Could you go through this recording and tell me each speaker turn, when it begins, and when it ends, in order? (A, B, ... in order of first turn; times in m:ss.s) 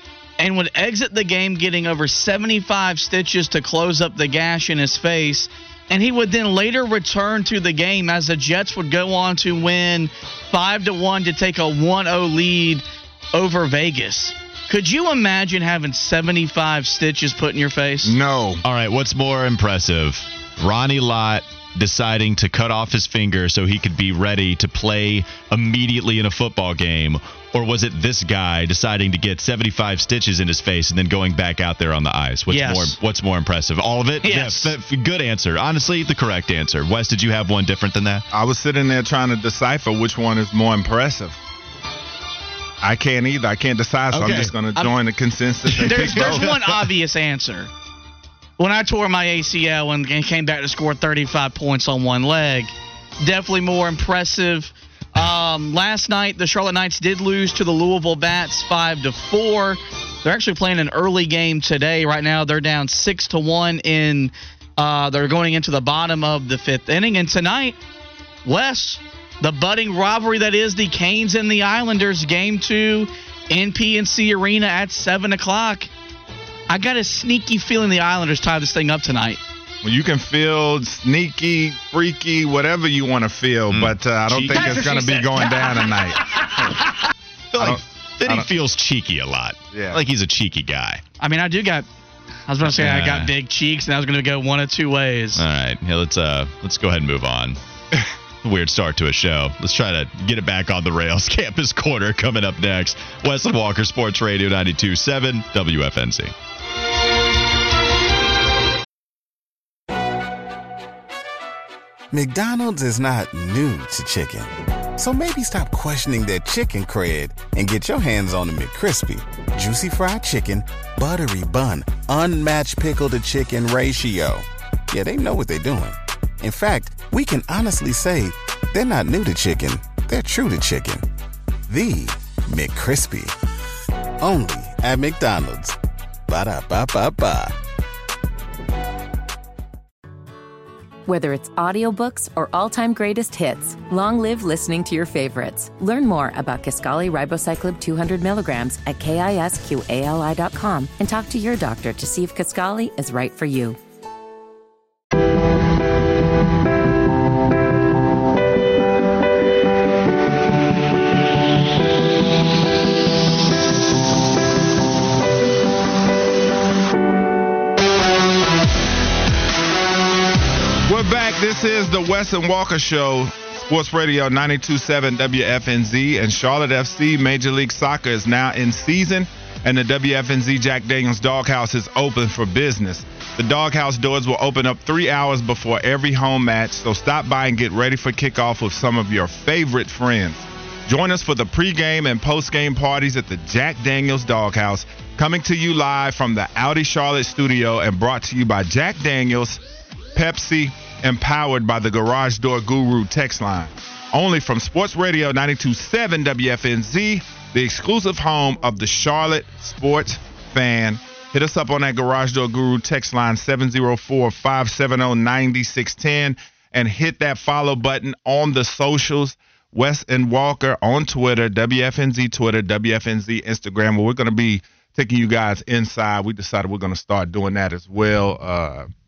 0:00.4-0:18.1 A
0:18.0-0:18.6 B
0:18.6-0:38.2 C
0:32.5-0:33.0 A
0:34.2-0:34.7 A
0:38.3-0:41.4 B
0:42.8-0:46.5 B
0:44.1-0:44.5 C
0:45.7-0:46.9 C
0:45.8-0:47.7 A
0:48.6-1:07.8 A
1:08.4-1:15.9 A
1:16.7-1:19.4 A
1:19.8-1:26.7 B
1:23.7-1:25.6 C
1:27.5-1:31.0 C
1:27.6-1:28.5 B
1:29.7-1:30.0 B
1:31.2-1:31.8 A
1:32.5-1:35.4 A
1:32.6-1:33.3 C
1:35.4-1:37.6 C
1:38.4-1:46.3 C
1:52.1-2:11.0 D
2:11.7-2:13.3 D
2:14.2-2:15.8 D
2:16.3-2:17.6 D
2:21.0-2:33.8 E
2:50.9-3:19.6 B
3:20.1-3:48.9 B